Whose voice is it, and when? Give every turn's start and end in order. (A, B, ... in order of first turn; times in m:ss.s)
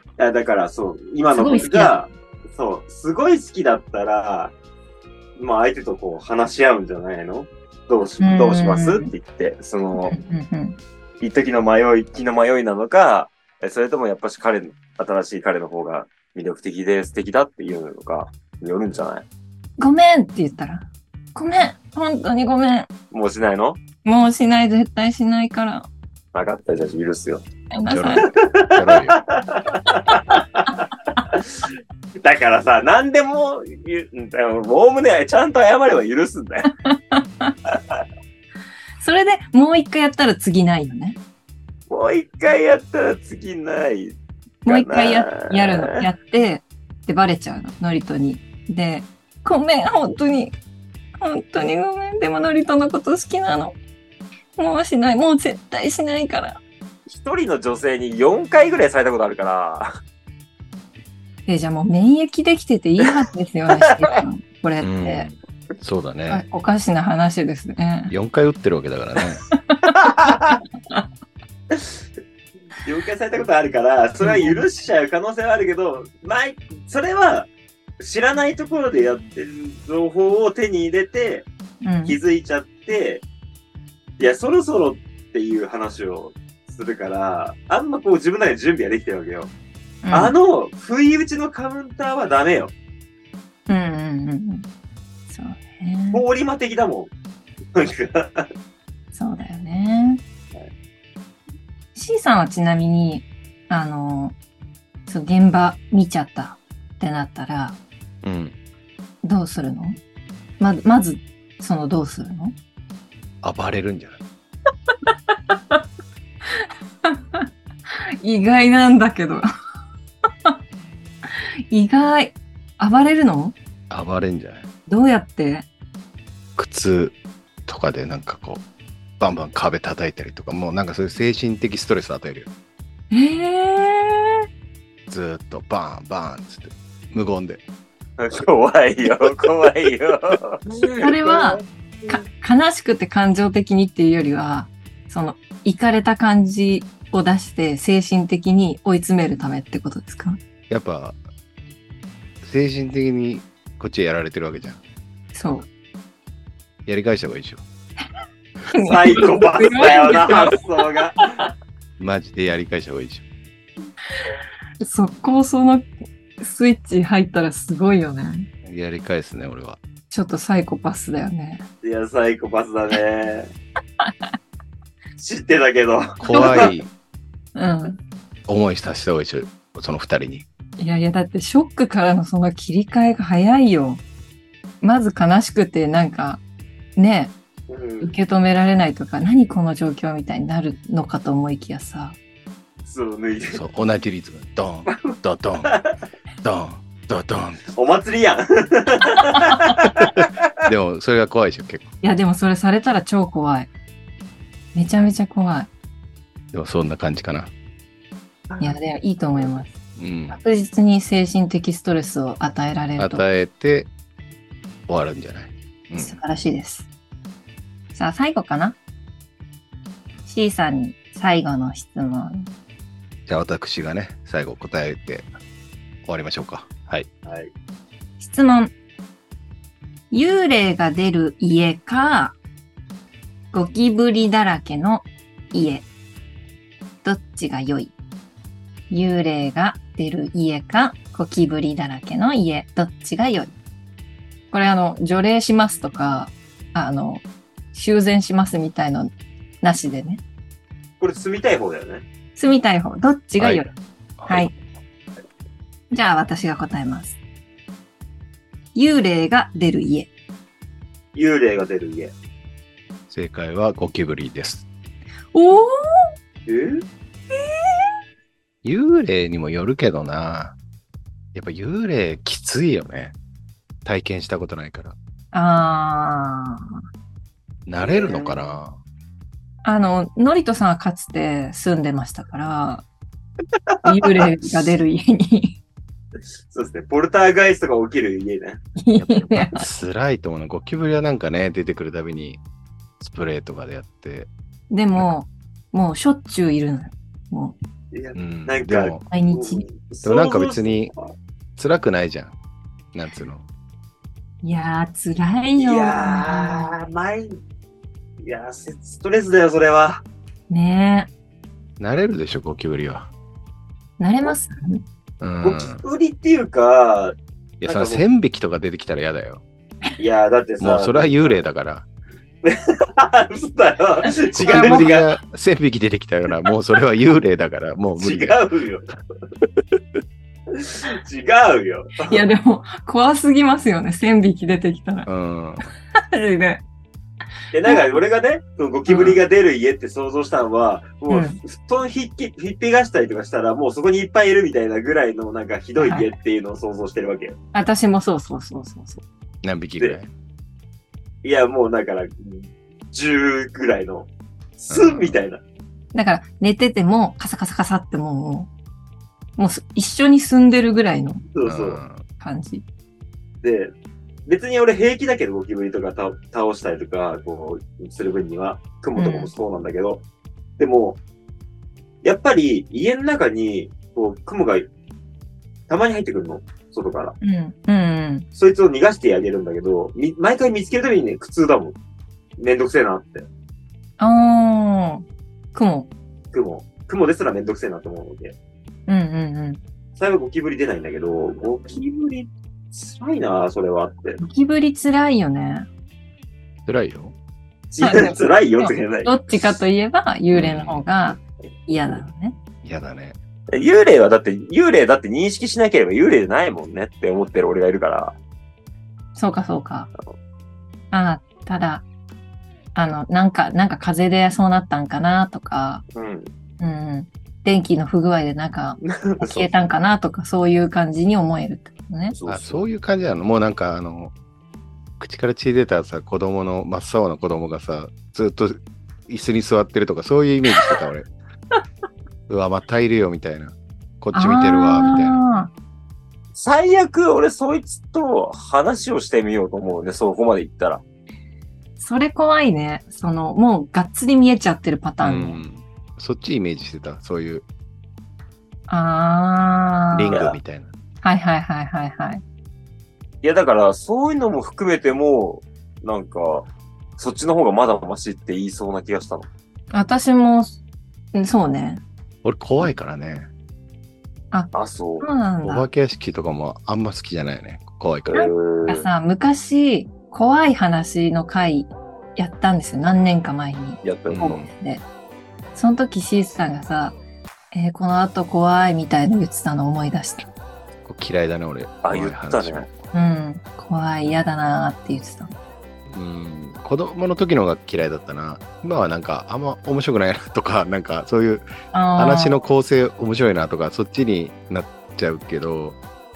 0:00.2-0:04.5 A
0:01.3-0:02.0 B
0:05.4-0:10.2 A
0:08.2-0:09.1 B
0:10.0-0:10.8 B
0:11.2-0:19.2 A
0:19.8-0:22.9 B
0:23.1-0:23.8 A
0:24.0-0:25.9 B
0:26.3-0:27.4 A
0:27.7-0:28.3 B
0:27.9-0:29.2 C
0:28.2-0:31.6 A
0:32.2-0:36.7 A
0:36.8-0:37.5 B
0:37.7-0:38.0 A
0:39.0-0:41.2 B
0:41.9-0:46.0 A
0:44.6-0:50.6 B
0:51.2-0:53.8 B
0:54.6-0:56.6 B
0:57.1-1:00.0 A
1:01.5-1:05.3 B
1:04.8-1:06.4 C
1:06.3-1:08.1 B
1:08.1-1:09.4 C
1:09.5-1:10.0 B
1:10.0-1:10.6 A
1:12.8-1:21.5 A
1:14.2-1:14.6 B
1:21.8-1:22.2 B
1:22.0-1:23.2 A
1:24.2-1:29.5 A
1:30.0-1:30.3 B
1:30.1-1:32.7 A
1:33.7-1:34.6 B
1:35.3-1:36.2 B
1:36.1-1:37.1 A
1:37.7-1:38.5 A
1:39.1-1:40.2 B
1:41.9-1:44.4 B
1:45.1-1:47.8 B
1:48.2-1:48.6 C
1:49.2-1:50.0 B
1:50.6-1:52.6 B
1:53.4-1:54.2 C
1:55.0-1:55.8 B
1:56.5-1:57.5 B
1:58.2-1:59.4 B
2:01.7-2:03.5 B
2:03.9-2:04.7 C
2:04.9-2:05.7 B
2:06.6-2:07.1 C
2:07.7-2:08.6 C
2:09.2-2:12.5 C
2:13.1-2:14.4 B
2:15.1-2:17.6 C
2:18.2-2:22.2 A
2:21.0-2:30.4 B
2:30.7-2:31.2 C
2:32.4-2:34.8 C
2:35.3-2:35.7 B
2:36.8-2:37.6 C
2:38.7-2:40.6 B
2:38.8-2:41.5 A
2:42.0-2:43.2 C
2:44.8-2:48.5 B
2:48.6-2:49.8 C
2:50.1-2:51.6 B
2:51.8-2:53.5 A
2:55.2-2:56.7 A
2:56.2-2:56.9 C
2:56.3-2:56.7 B
2:57.6-2:58.0 B
2:58.5-3:00.4 C
3:00.8-3:04.0 B
3:04.8-3:06.4 B
3:07.0-3:07.3 B
3:07.7-3:08.1 A
3:08.0-3:12.2 B
3:12.8-3:13.6 A
3:13.5-3:15.7 C
3:14.9-3:15.9 A
3:16.4-3:17.6 C
3:17.7-3:20.2 A
3:20.6-3:21.9 C
3:22.0-3:23.7 B
3:24.7-3:25.7 B
3:26.5-3:27.5 C
3:28.5-3:28.8 A
3:28.6-3:29.7 B
3:30.0-3:30.4 C
3:30.3-3:33.2 B
3:33.0-3:33.9 C
3:34.9-3:36.2 C
3:36.0-3:36.9 B
3:37.9-3:38.8 B
3:40.2-3:42.5 B
3:43.2-3:45.3 C
3:46.0-3:47.1 C
3:47.2-3:47.5 A
3:48.2-3:48.7 B
3:50.1-3:52.4 B
3:53.5-3:55.8 B
3:57.0-3:57.9 B
3:58.9-4:03.5 B
4:04.5-4:10.2 B
4:11.0-4:12.0 A
4:12.4-4:13.7 B
4:14.2-4:14.5 C
4:14.3-4:14.5 B
4:15.9-4:17.2 B
4:18.7-4:20.1 B
4:21.1-4:22.1 A
4:23.1-4:24.6 C
4:25.3-4:26.1 B
4:26.5-4:26.8 A
4:27.3-4:27.9 B
4:28.6-4:30.5 C
4:31.3-4:33.1 C
4:33.8-4:35.0 C
4:35.3-4:36.8 B
4:37.6-4:38.8 C
4:37.8-4:38.6 A
4:39.6-4:42.8 B
4:43.7-4:44.3 A
4:43.8-4:45.6 B
4:46.5-4:48.6 A
4:48.8-4:49.6 B
4:49.0-4:52.4 C
4:53.0-4:54.3 C
4:54.7-4:57.6 B
4:57.9-5:01.1 A
4:58.1-4:59.0 C
4:59.1-4:59.6 B
5:00.0-5:00.9 C
5:01.6-5:02.4 C
5:02.9-5:03.4 C
5:04.4-5:06.7 B
5:05.6-5:07.4 A
5:08.2-5:10.0 A
5:10.5-5:11.1 B
5:11.8-5:13.1 C
5:14.0-5:14.8 B
5:15.2-5:15.8 C
5:15.4-5:18.0 A
5:17.6-5:19.4 C
5:20.0-5:21.4 A
5:20.6-5:21.8 C
5:22.4-5:25.1 A
5:24.3-5:28.4 C
5:24.5-5:24.9 B
5:28.0-5:28.9 A
5:30.5-5:32.2 A
5:32.1-5:35.1 B
5:35.0-5:35.7 C
5:36.0-5:36.6 B
5:37.5-5:47.4 A
5:38.9-5:39.2 B
5:41.1-5:41.4 B
5:45.8-5:46.1 B
5:47.5-5:49.0 B
5:49.4-5:50.1 C
5:51.2-5:55.4 A
5:54.7-5:55.2 C
5:55.9-5:58.5 B
5:59.4-6:01.3 B
6:01.3-6:01.8 A
6:01.4-6:02.0 C
6:02.2-6:02.6 B
6:03.4-6:03.7 A
6:04.3-6:10.0 A
6:09.0-6:09.3 B
6:10.6-6:11.0 A
6:12.0-6:14.7 A
6:15.7-6:17.2 A
6:17.2-6:18.3 B
6:18.4-6:21.8 A
6:22.4-6:23.3 A
6:24.0-6:25.9 B
6:26.3-6:28.4 A
6:28.9-6:29.6 B
6:30.0-6:34.2 A
6:34.2-6:35.7 B
6:36.6-6:37.1 C
6:37.7-6:39.5 A
6:37.8-6:42.4 B
6:40.3-6:40.8 C
6:42.6-6:43.2 C
6:43.5-6:48.2 A
6:49.1-6:49.9 B
6:50.9-6:51.8 B
6:52.7-6:55.8 B
6:55.9-6:56.3 A
6:56.6-7:02.1 B
6:58.8-6:59.5 A
7:02.1-7:02.6 A
7:02.3-7:04.1 C
7:05.0-7:11.1 C
7:10.5-7:10.8 B
7:12.3-7:15.2 C
7:14.1-7:15.5 B
7:16.3-7:20.8 A
7:21.8-7:25.4 B
7:25.0-7:27.4 C
7:28.7-7:30.2 B
7:29.9-7:30.7 C
7:30.1-7:30.4 A
7:31.0-7:32.2 B
7:33.2-7:39.3 A
7:39.7-7:40.6 B
7:41.1-7:41.8 B
7:42.2-7:43.3 C
7:44.3-7:45.7 B
7:44.5-7:45.1 A
7:45.4-7:48.1 C
7:48.1-7:48.9 A
7:48.1-7:54.8 B
7:53.8-7:54.3 A
7:54.1-7:54.5 C
7:55.5-7:57.0 B
7:57.5-8:00.3 B
8:00.8-8:02.7 C
8:01.8-8:02.7 A
8:02.9-8:05.3 B
8:05.9-8:15.8 C
8:11.7-8:12.4 B